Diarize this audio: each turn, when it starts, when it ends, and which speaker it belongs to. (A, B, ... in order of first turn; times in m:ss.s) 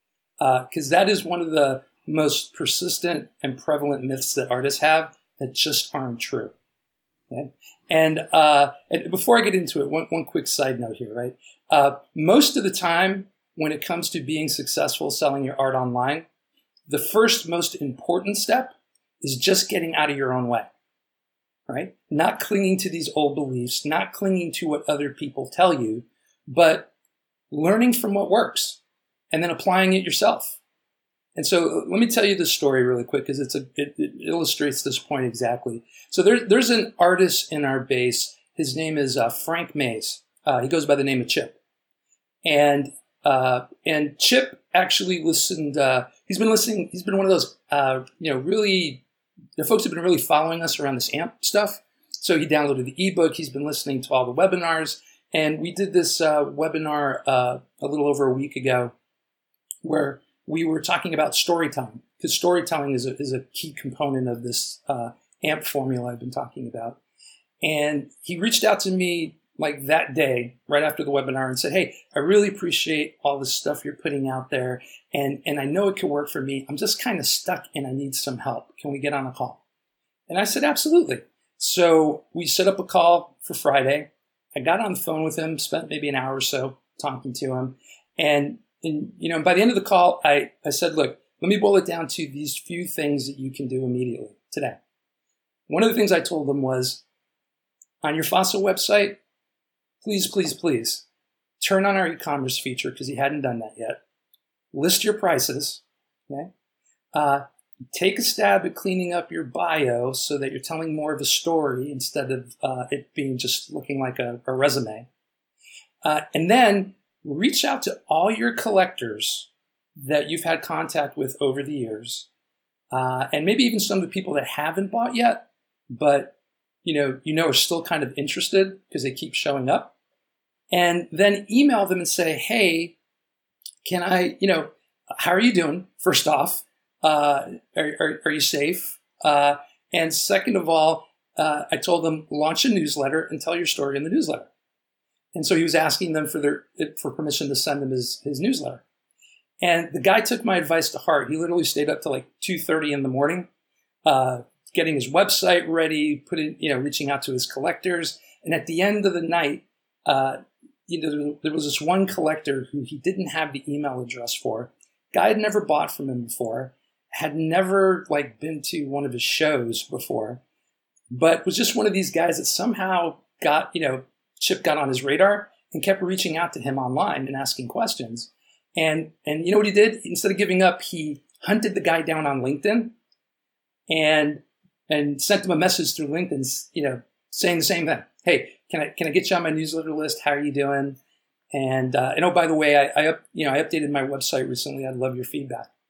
0:00.4-0:06.5 A
0:07.3-0:16.3 A
0:16.9-0:20.7 A
0:21.7-0:26.9 A
0:27.5-0:28.8 A
0:29.3-0:30.6 A
0:31.3-0:41.6 A
0:42.4-0:49.0 A
0:49.6-0:58.9 A
0:59.8-1:07.0 A
1:07.6-1:19.6 A
1:20.3-1:34.8 A
1:35.7-1:37.0 A
1:38.0-1:39.2 A
1:40.0-1:41.0 A
1:41.6-1:44.0 A
1:44.7-1:46.5 A
1:47.1-1:55.1 A
1:56.0-2:02.3 A
2:02.9-2:09.9 A
2:10.7-2:13.0 A
2:13.8-2:24.5 A
2:25.3-2:28.8 A
2:29.6-2:33.5 A
2:34.0-2:50.4 A
2:51.1-3:02.9 A
3:03.9-3:11.0 A
3:11.5-3:15.7 A